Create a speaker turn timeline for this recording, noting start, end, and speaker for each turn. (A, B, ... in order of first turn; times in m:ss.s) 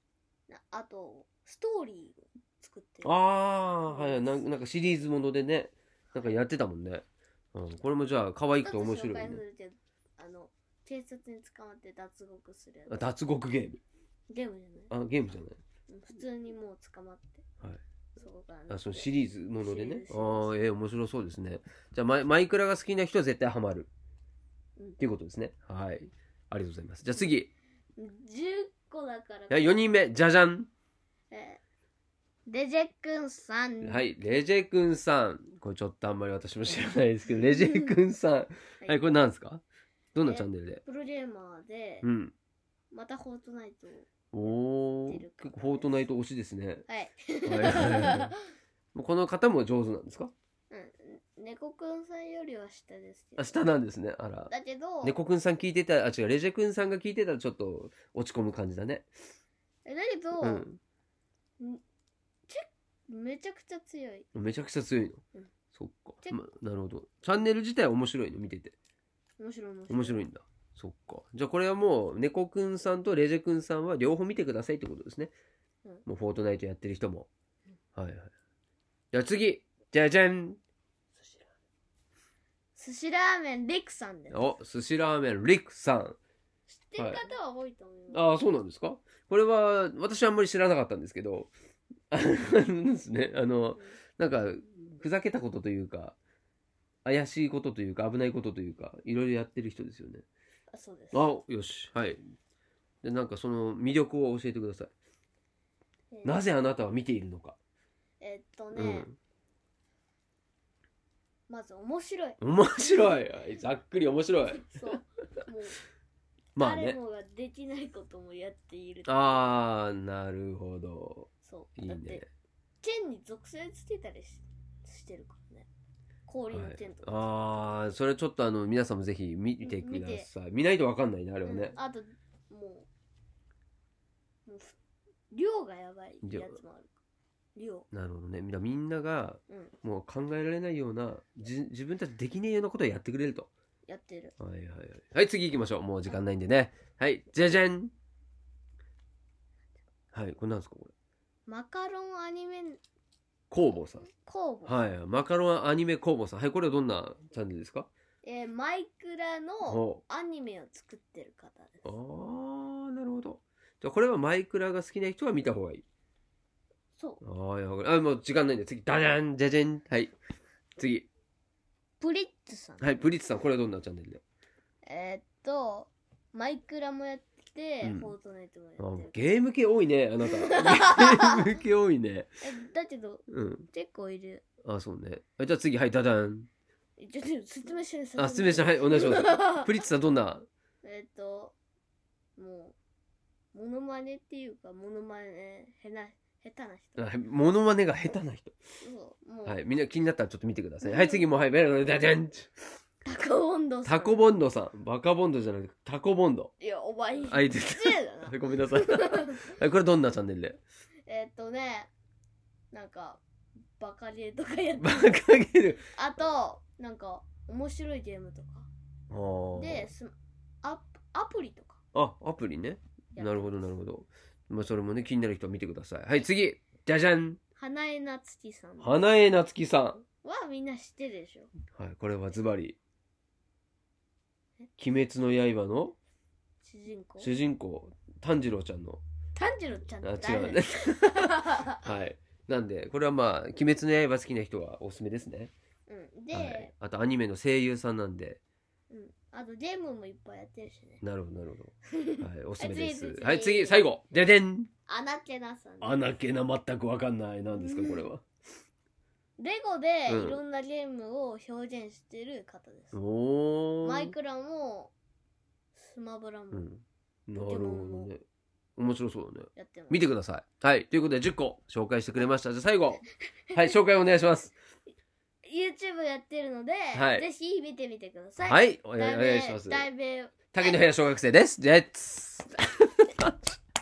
0:00.5-0:03.2 A
0:03.0-0:09.4 B
0:03.8-0:04.4 A
0:08.5-0:13.0 A
0:12.9-0:13.8 B
0:14.3-0:14.9 A
0:14.9-0:15.6 B
0:15.9-0:17.4 A
0:18.2-0:19.0 A
0:18.7-0:23.9 B
0:19.6-0:20.5 A
0:25.0-0:27.5 B
0:28.0-0:29.9 A
0:29.5-0:30.7 B
0:31.3-0:31.6 A
0:32.4-0:34.0 A
0:33.8-0:39.6 B
0:38.8-0:39.1 A
0:40.1-0:40.8 B
0:40.2-0:42.0 A
0:42.0-0:42.3 B
0:42.9-0:44.1 A
0:44.3-0:46.8 B
0:45.0-0:46.1 A
0:46.9-0:48.4 A
0:47.4-0:48.3 B
0:48.9-0:50.3 B
0:50.7-0:53.5 A
0:53.4-0:54.5 B
0:54.5-0:55.1 A
0:55.0-0:59.1 B
0:59.8-1:00.7 A
1:00.4-1:00.8 B
1:02.5-1:04.3 A
1:04.3-1:08.7 B
1:09.4-1:10.2 A
1:09.9-1:15.3 B
1:16.0-1:17.3 B
1:17.9-1:18.3 B
1:19.1-1:20.6 B
1:22.8-1:24.4 A
1:24.3-1:26.2 B
1:26.7-1:28.4 A
1:27.0-1:27.2 B
1:28.1-1:31.5 B
1:32.1-1:36.2 B
1:37.0-1:40.2 B
1:40.7-1:41.3 A
1:41.1-1:42.2 B
1:43.0-1:44.9 B
1:46.1-1:46.4 A
1:46.2-1:47.6 B
1:48.2-1:49.1 A
1:48.7-1:49.1 B
1:51.5-1:52.4 A
1:52.4-1:54.7 B
1:54.6-1:55.8 A
1:56.6-1:57.0 B
1:56.6-1:59.5 A
1:59.1-2:02.3 B
2:01.4-2:02.2 A
2:02.8-2:05.7 A
2:06.3-2:07.3 A
2:06.5-2:11.8 B
2:09.6-2:10.3 A
2:11.4-2:12.9 A
2:14.4-2:14.8 A
2:15.3-2:16.9 A
2:16.2-2:16.6 B
2:17.6-2:17.9 A
2:17.9-2:23.5 B
2:23.9-2:24.3 A
2:24.4-2:27.9 B
2:30.1-2:30.9 B
2:31.5-2:32.8 A
2:33.5-2:34.1 B
2:34.0-2:34.8 A
2:34.6-2:37.9 B
2:38.2-2:41.9 A
2:39.6-2:40.0 B
2:41.8-2:45.8 B
2:47.2-2:50.1 B
2:50.8-2:51.1 B
2:52.0-2:52.9 A
2:52.8-2:54.2 B
2:54.8-2:59.2 A
2:57.8-2:58.1 B
2:58.8-3:02.4 B
3:00.5-3:01.5 A
3:02.4-3:04.4 A
3:03.3-3:03.7 B
3:04.6-3:06.5 B
3:07.0-3:09.7 A
3:08.2-3:10.4 B
3:10.8-3:11.5 A
3:12.4-3:12.7 A
3:13.5-3:17.0 A
3:17.0-3:18.5 B
3:18.8-3:19.6 A
3:19.4-3:22.5 B
3:20.8-3:21.2 A
3:23.0-3:24.3 A
3:23.8-3:26.5 B
3:26.6-3:29.5 A
3:27.2-3:30.6 B
3:31.0-3:31.9 A
3:32.7-3:33.2 A
3:33.8-3:35.2 A
3:34.8-3:35.9 B
3:35.8-3:38.7 A
3:39.1-3:39.9 B
3:39.5-3:41.8 A
3:41.9-3:47.4 B
3:43.1-3:43.5 A
3:47.6-3:48.9 A
3:48.8-3:50.0 B
3:50.2-3:51.5 A
3:51.7-3:52.8 B
3:54.8-3:56.0 B
3:56.6-3:57.3 A
3:57.2-3:59.0 B
3:59.4-4:01.8 A
4:00.0-4:05.5 B
4:05.9-4:06.7 A
4:06.3-4:08.4 B
4:08.9-4:11.0 A
4:11.0-4:14.7 B
4:11.9-4:13.9 A
4:14.9-4:16.0 A
4:15.8-4:18.2 B
4:17.5-4:18.0 A
4:19.4-4:23.0 A
4:20.1-4:20.4 B
4:22.9-4:24.1 B
4:23.8-4:24.9 A
4:25.8-4:26.7 A
4:26.5-4:28.2 B
4:27.4-4:28.1 A
4:28.8-4:34.5 B
4:29.6-4:30.1 A
4:35.4-4:40.8 A
4:36.9-4:37.2 B
4:38.4-4:39.9 B
4:40.5-4:43.3 B